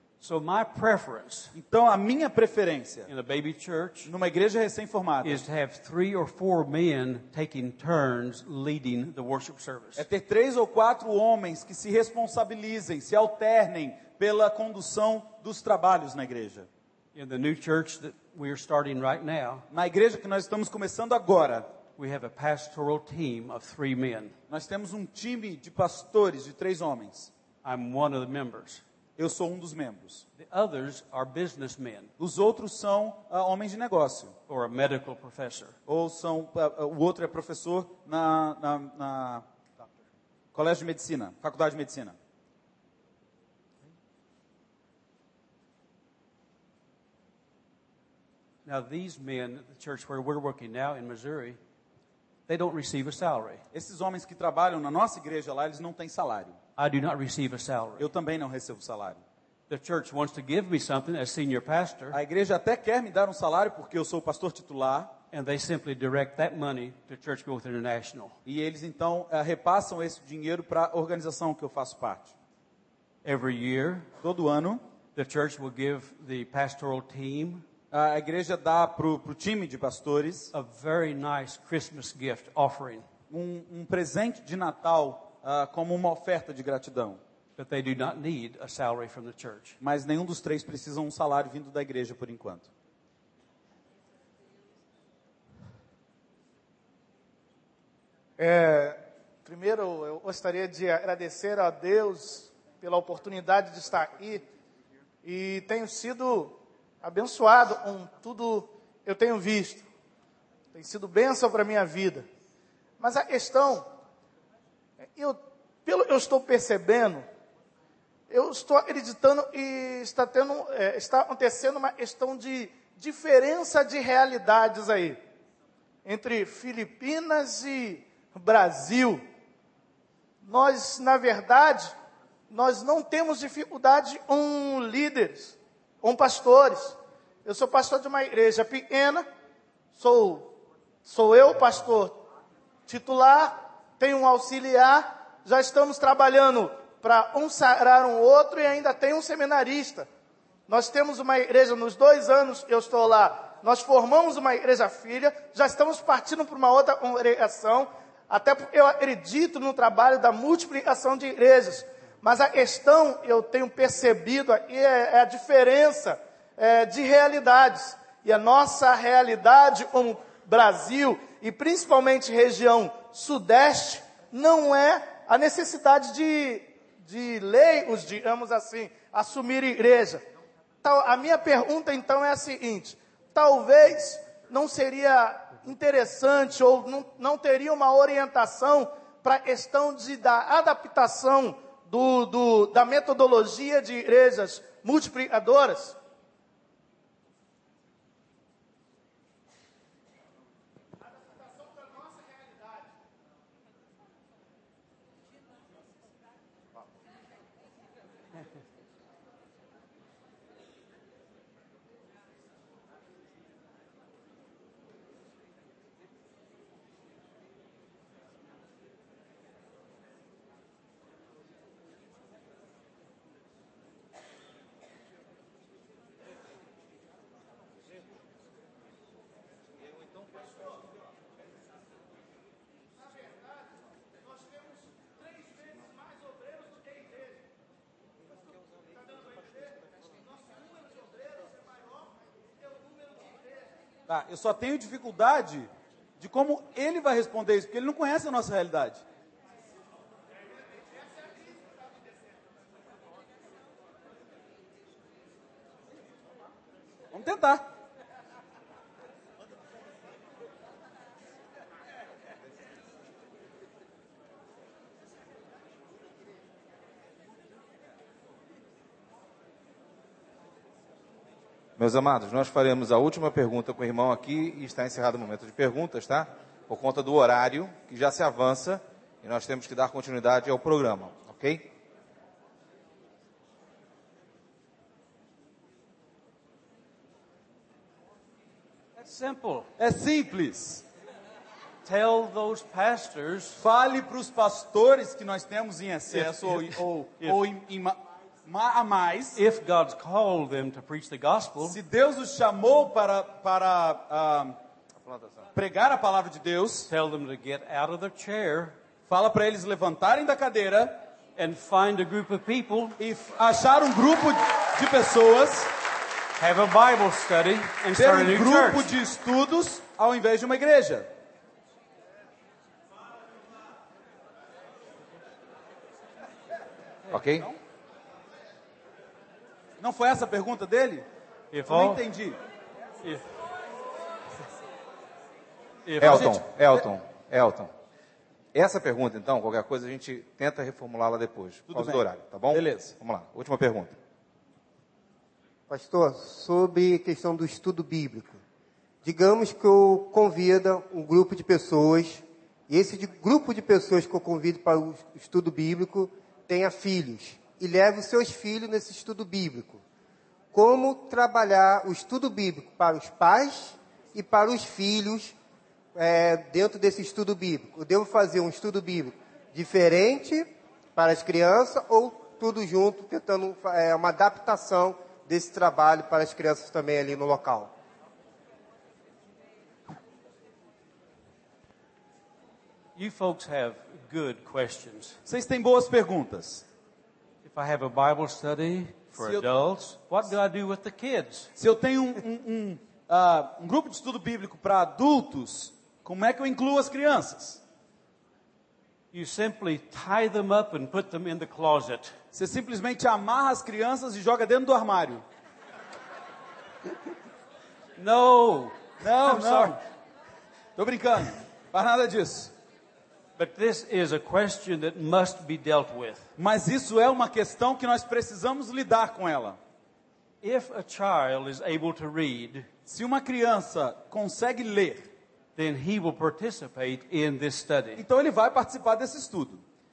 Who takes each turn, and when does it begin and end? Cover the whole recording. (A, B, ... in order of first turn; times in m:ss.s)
0:00.2-0:01.5 A
0:01.5-0:03.1 B
0:03.1-0:04.1 A
0:04.0-0:05.4 B
0:05.2-0:10.1 A
0:10.0-0:16.7 B
0:17.1-0:19.6 A
0:19.7-0:21.7 B
0:22.0-0:24.4 A
0:24.5-0:27.3 B
0:27.6-0:28.8 A
0:29.2-0:30.2 B
0:30.4-0:32.1 A
0:32.2-0:34.4 B
0:34.5-0:35.8 A
0:35.9-0:39.4 B
0:40.5-0:42.2 B
0:48.6-0:51.6 A
0:52.5-0:53.6 A
0:53.7-0:56.6 B
0:56.8-0:58.1 A
0:58.0-0:59.2 B
0:59.7-1:02.2 A
1:02.1-1:05.2 B
1:05.3-1:08.4 A
1:08.4-1:12.3 B
1:13.2-1:14.1 A
1:14.2-1:14.8 B
1:15.1-1:17.6 A
1:17.9-1:20.5 B
1:20.5-1:23.0 A
1:23.3-1:27.2 B
1:27.6-1:29.8 A
1:29.8-1:32.7 B
1:38.4-1:44.4 C
1:45.2-1:49.8 C
1:50.7-1:52.2 C
1:53.0-1:53.9 C
1:55.0-1:57.2 C
1:58.3-2:05.2 C
2:06.0-2:09.2 C
2:10.4-2:11.9 C
2:12.5-2:19.2 C
2:19.9-2:20.5 C
2:21.0-2:22.2 C
2:22.9-2:30.1 C
2:30.7-3:00.2 C
3:00.8-3:16.0 C
4:04.1-4:09.0 B
4:17.1-4:17.6 B
4:31.8-4:41.7 D
4:49.0-4:49.7 A
4:49.8-4:50.8 B
4:51.8-4:53.6 A
4:53.6-4:59.4 B
4:56.1-4:57.4 A
4:59.3-5:01.8 A
5:01.6-5:04.6 B
5:05.0-5:05.4 D
5:05.5-5:06.9 B
5:06.9-5:08.8 A
5:09.1-5:11.0 B
5:11.4-5:13.0 A
5:13.0-5:15.7 B
5:16.4-5:18.9 A
5:17.9-5:21.1 B
5:27.1-5:27.5 D
5:29.8-5:31.1 B
5:31.5-5:32.0 A
5:31.7-5:32.4 B
5:35.8-5:36.5 A
5:36.0-5:37.7 D
5:38.5-5:44.0 D
5:41.7-5:42.9 B
5:45.7-5:48.4 E
5:49.0-5:59.8 E
6:00.5-6:05.4 E
6:05.9-6:17.7 E
6:22.9-6:25.2 A
6:25.2-6:26.6 B
6:27.4-6:31.5 A
6:29.2-6:29.5 B
6:31.6-6:37.6 B
6:39.1-6:42.2 A
6:42.3-6:45.2 B
6:48.0-6:49.8 A
6:49.0-6:49.8 B
6:50.8-6:52.5 B
6:53.4-6:56.3 A
6:56.4-6:59.6 B
7:00.4-7:02.7 A
7:02.9-7:05.1 B
7:05.6-7:08.0 A
7:08.0-7:09.6 B